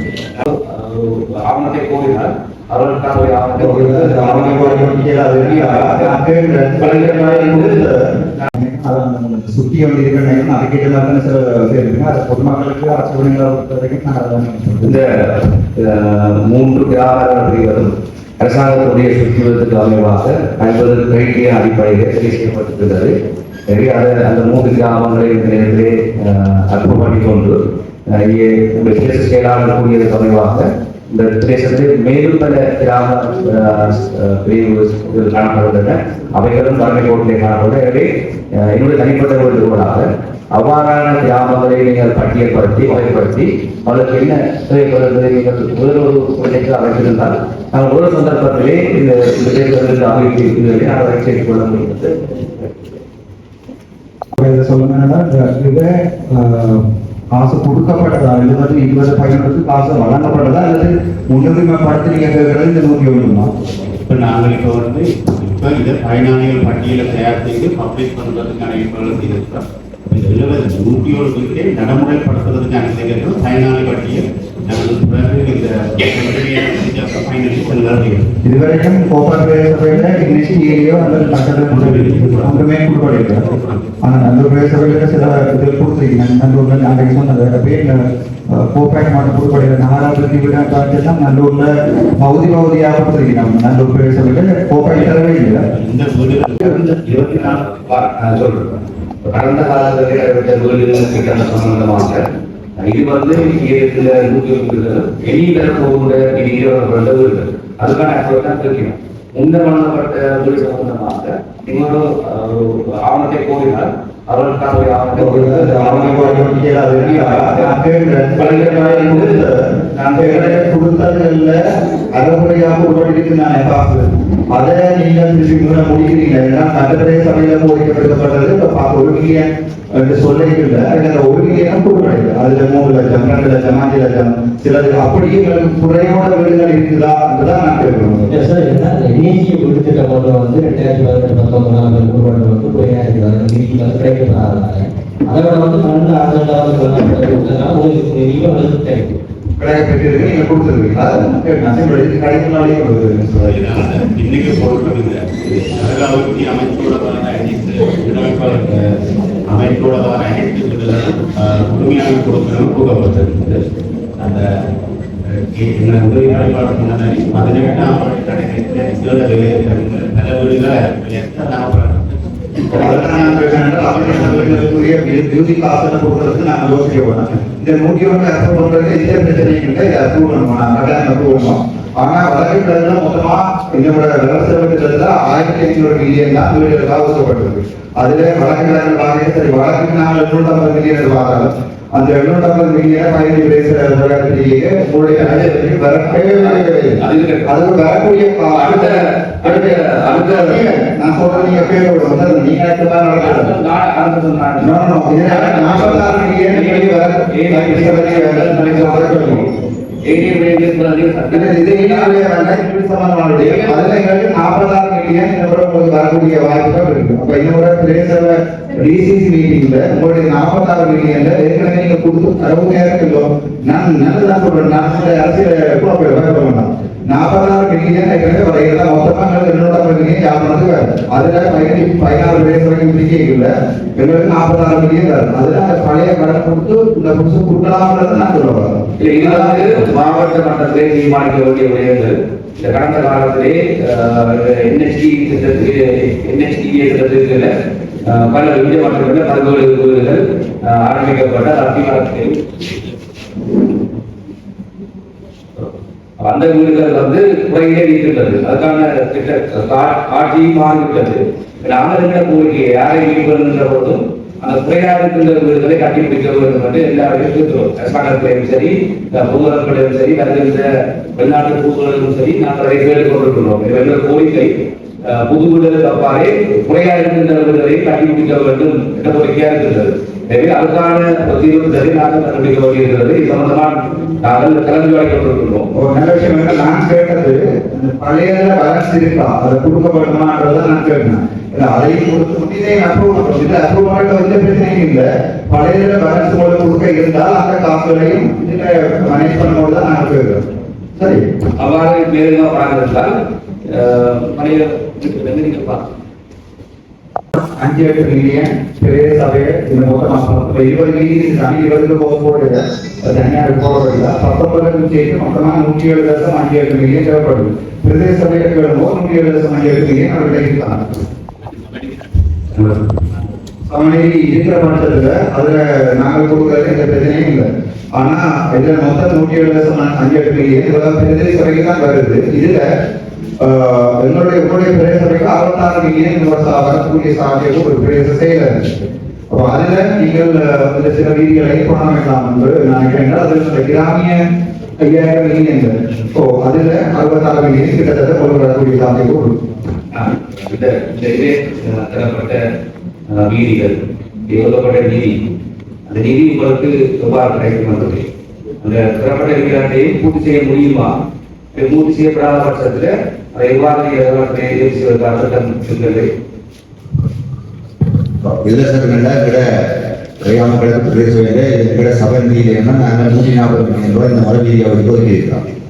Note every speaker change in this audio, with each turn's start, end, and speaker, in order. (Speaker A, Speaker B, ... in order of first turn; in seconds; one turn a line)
Speaker A: 0.3-6.2
Speaker B: 3.6-8.0
Speaker A: 6.8-8.5
Speaker B: 8.5-15.0
Speaker A: 14.8-23.1
Speaker A: 23.7-27.6
Speaker A: 28.1-52.7
Speaker B: 54.4-63.5
Speaker C: 64.1-78.3
Speaker B: 78.4-83.5
Speaker C: 81.7-82.7
Speaker C: 83.5-83.8
Speaker B: 84.0-95.6
Speaker C: 95.7-97.5
Speaker A: 97.1-102.2
Speaker A: 102.8-117.7
Speaker B: 115.1-138.3
Speaker A: 118.3-120.7
Speaker D: 138.3-149.2
Speaker B: 149.6-153.6
Speaker C: 153.4-158.8
Speaker C: 159.5-164.5
Speaker C: 165.2-174.7
Speaker B: 172.7-203.5
Speaker A: 195.1-197.5
Speaker A: 198.5-200.8
Speaker A: 201.3-201.8
Speaker A: 203.1-209.5
Speaker B: 204.6-209.4
Speaker A: 210.0-212.2
Speaker B: 211.3-239.7
Speaker A: 213.3-213.9
Speaker A: 239.0-247.5
Speaker A: 248.0-252.4
Speaker A: 255.6-274.5
Speaker A: 275.0-285.7
Speaker B: 285.7-300.4
Speaker B: 300.9-301.2
Speaker A: 301.6-303.1
Speaker A: 303.7-305.9
Speaker B: 307.4-320.9
Speaker B: 323.7-332.6
Speaker B: 333.4-338.7
Speaker B: 339.3-344.2
Speaker B: 344.8-349.4
Speaker A: 349.9-352.4
Speaker A: 353.1-355.1
Speaker A: 355.9-358.1
Speaker A: 358.6-360.9
Speaker A: 361.5-366.1
Speaker E: 368.2-375.4